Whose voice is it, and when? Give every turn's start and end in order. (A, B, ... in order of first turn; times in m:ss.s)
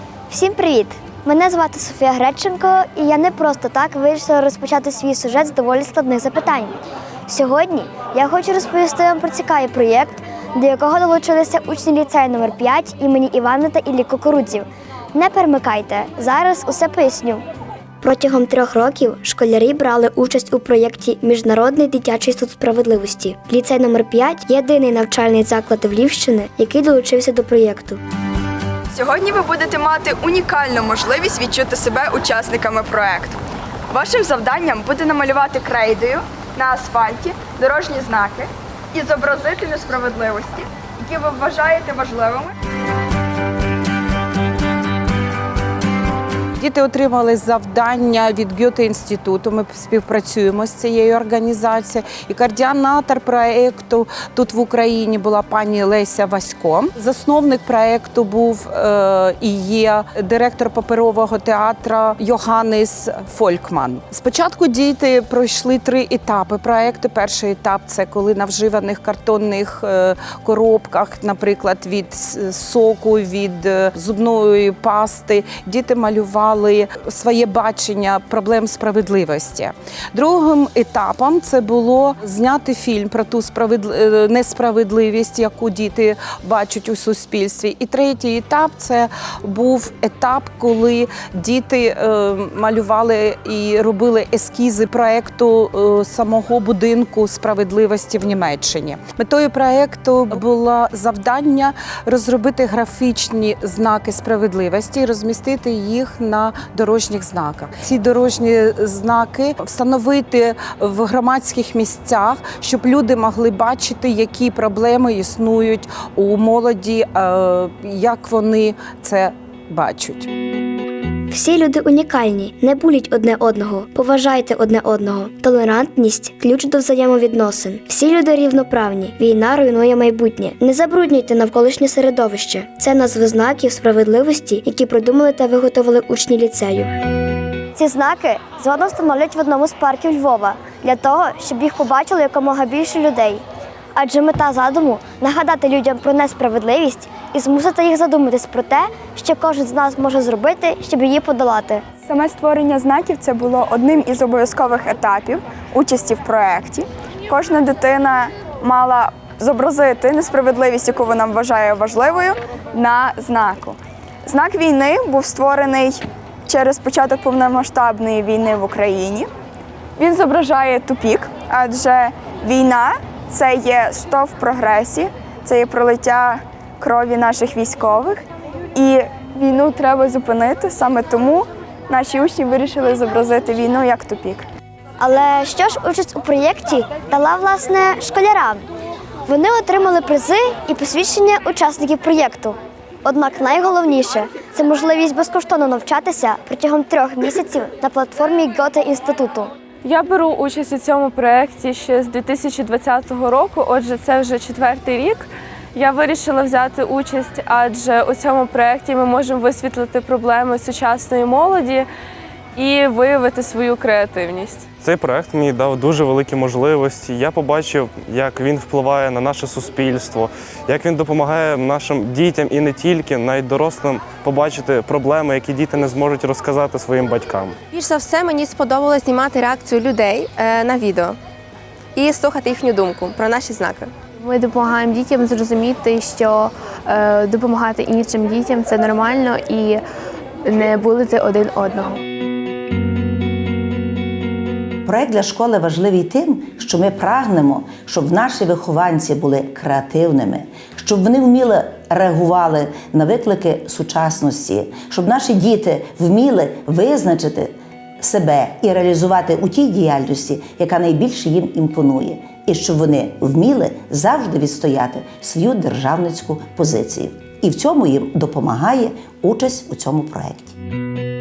0:00.3-0:06.7 A
0:07.3-0:17.4 A
0:18.0-0:28.0 A
0:28.9-0:33.3 B
0:33.9-0:42.5 B
0:46.6-2:00.3 C
2:01.3-2:16.9 A
2:17.7-2:23.4 A
2:24.0-2:31.8 A
2:32.1-2:43.7 B
2:44.3-2:49.3 B
2:50.0-2:58.2 B
2:58.8-3:04.4 B
3:05.0-3:08.6 A
3:09.3-3:19.5 A
3:19.8-3:31.9 D
3:32.6-3:34.7 D
3:34.8-3:47.6 E
3:47.7-3:51.2 F
3:51.9-3:53.9 F
3:54.2-3:59.8 G
4:00.4-4:02.0 G
4:04.8-4:30.5 H